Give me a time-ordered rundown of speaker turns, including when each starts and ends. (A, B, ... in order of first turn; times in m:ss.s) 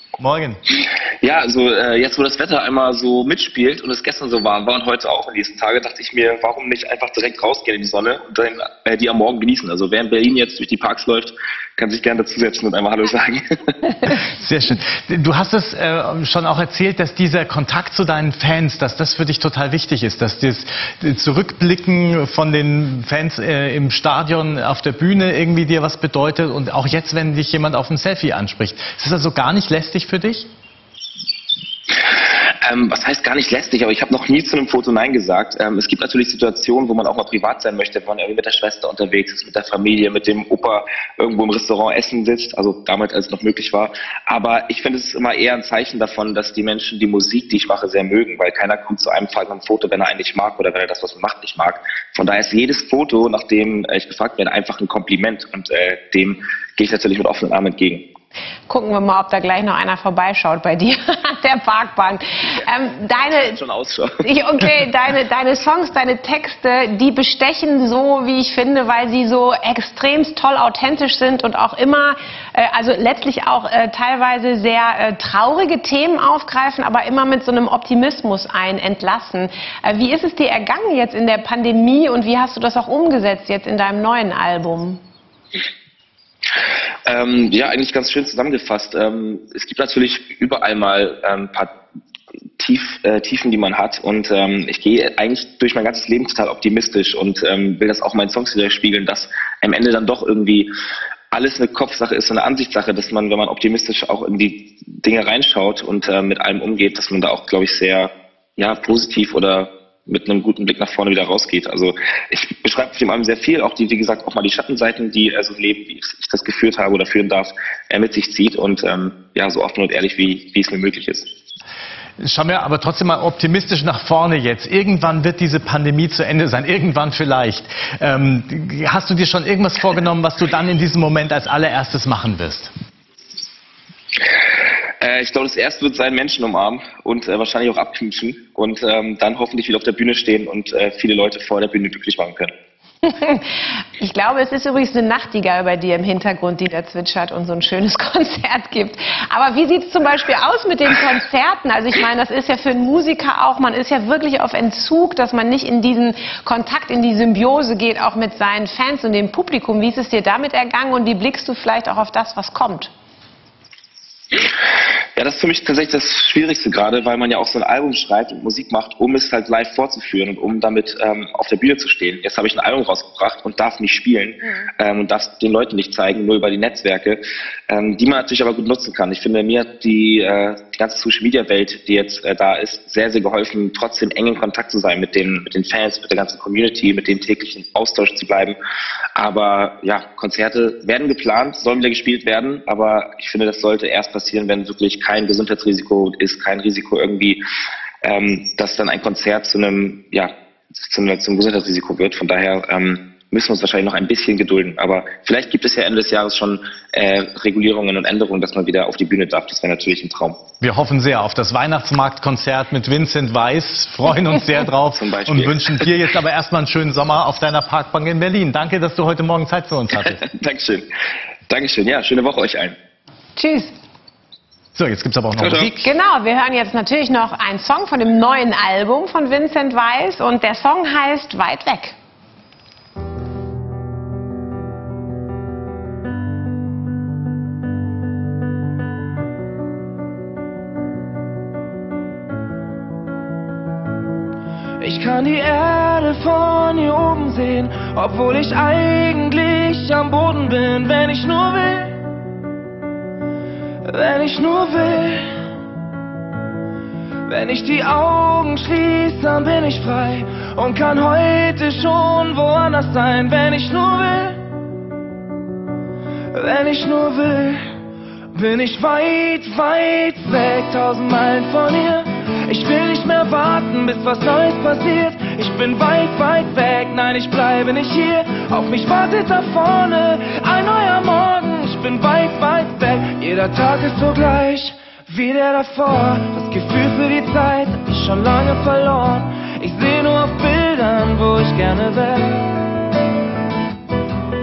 0:01.2-0:14.0 A
0:14.5-0:30.5 B
0:32.6-0:58.0 A
0:58.7-1:03.6 C
1:03.1-1:04.3 A
1:04.2-1:25.0 C
1:27.1-1:31.7 A
1:32.6-1:40.7 A
1:41.3-2:01.3 A
2:02.2-2:12.7 B
2:15.0-2:22.5 A
2:23.0-2:42.9 C
2:45.2-3:08.6 A
2:54.4-2:54.7 C
3:09.2-3:17.4 A
3:18.0-3:30.4 A
3:30.6-3:34.8 B
3:34.9-3:35.9 A
3:35.7-3:39.9 B
3:40.1-3:40.9 A
3:41.5-3:42.8 A
3:43.4-3:43.7 C
3:44.8-3:45.3 B
3:45.4-3:45.8 A
3:45.8-3:52.0 C
4:04.8-4:12.0 D
4:13.8-4:15.4 D
4:17.3-4:24.4 D
4:26.3-4:27.7 D
4:28.3-4:52.6 D